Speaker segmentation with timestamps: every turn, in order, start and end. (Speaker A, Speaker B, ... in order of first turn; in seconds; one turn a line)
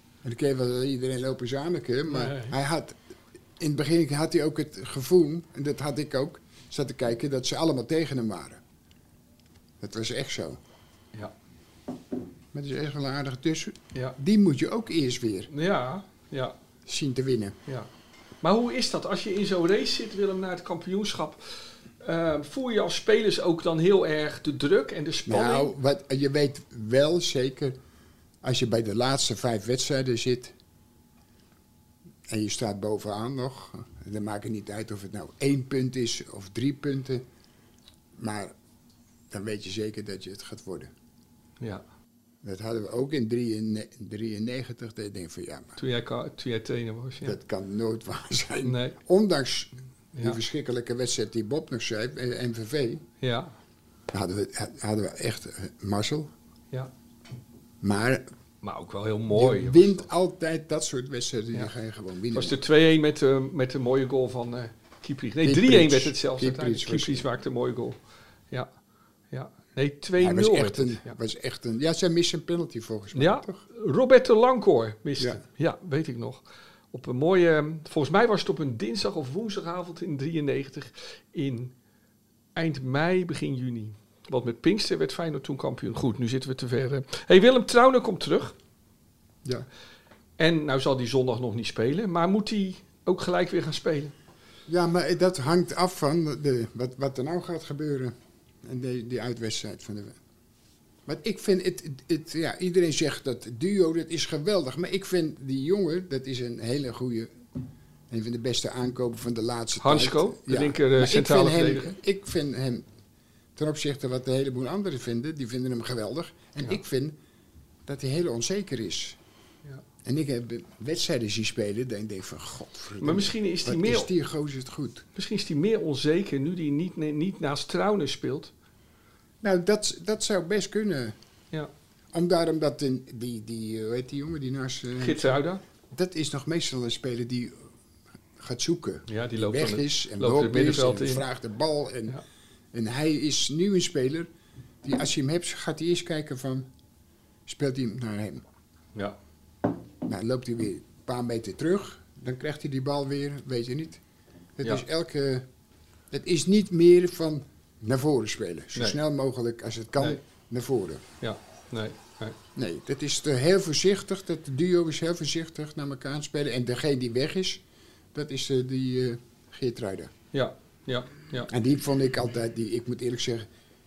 Speaker A: 0.2-3.0
Speaker B: 2.1-2.5
Speaker A: 3.6-8.6
Speaker A: 9.8-10.6
Speaker A: 12.5-15.5
Speaker B: 15.5-16.5
Speaker A: 16.9-17.6
Speaker B: 18.4-25.7
Speaker A: 25.2-27.8
Speaker A: 28.4-30.5
Speaker A: 32.3-37.2
Speaker A: 38.1-38.5
Speaker A: 39.3-40.9
Speaker A: 42.4-45.8
Speaker B: 45.8-47.4
Speaker A: 47.2-53.0
Speaker B: 48.6-49.0
Speaker B: 53.2-53.5
Speaker A: 54.1-56.3
Speaker A: 57.8-58.3
Speaker B: 58.6-60.0
Speaker A: 59.3-62.6
Speaker B: 62.3-68.0
Speaker A: 65.4-67.3
Speaker B: 69.3-71.1
Speaker A: 70.2-73.6
Speaker B: 73.1-81.7
Speaker B: 82.5-88.5
Speaker B: 90.4-94.1
Speaker A: 94.7-100.2
Speaker A: 101.0-107.3
Speaker A: 108.1-112.8
Speaker B: 109.8-112.0
Speaker A: 113.5-117.2
Speaker A: 117.8-119.2
Speaker A: 120.0-125.0
Speaker B: 123.0-124.1
Speaker B: 125.2-128.5
Speaker A: 129.4-131.1
Speaker A: 132.1-137.5
Speaker B: 135.0-135.6
Speaker A: 138.4-142.2
Speaker B: 139.1-141.2
Speaker A: 142.7-144.3
Speaker A: 144.8-146.7
Speaker A: 147.5-148.4
Speaker A: 150.0-154.0
Speaker A: 154.6-155.4
Speaker A: 156.1-161.0
Speaker B: 161.2-162.4
Speaker A: 162.5-170.1
Speaker B: 170.3-171.5
Speaker A: 171.5-173.5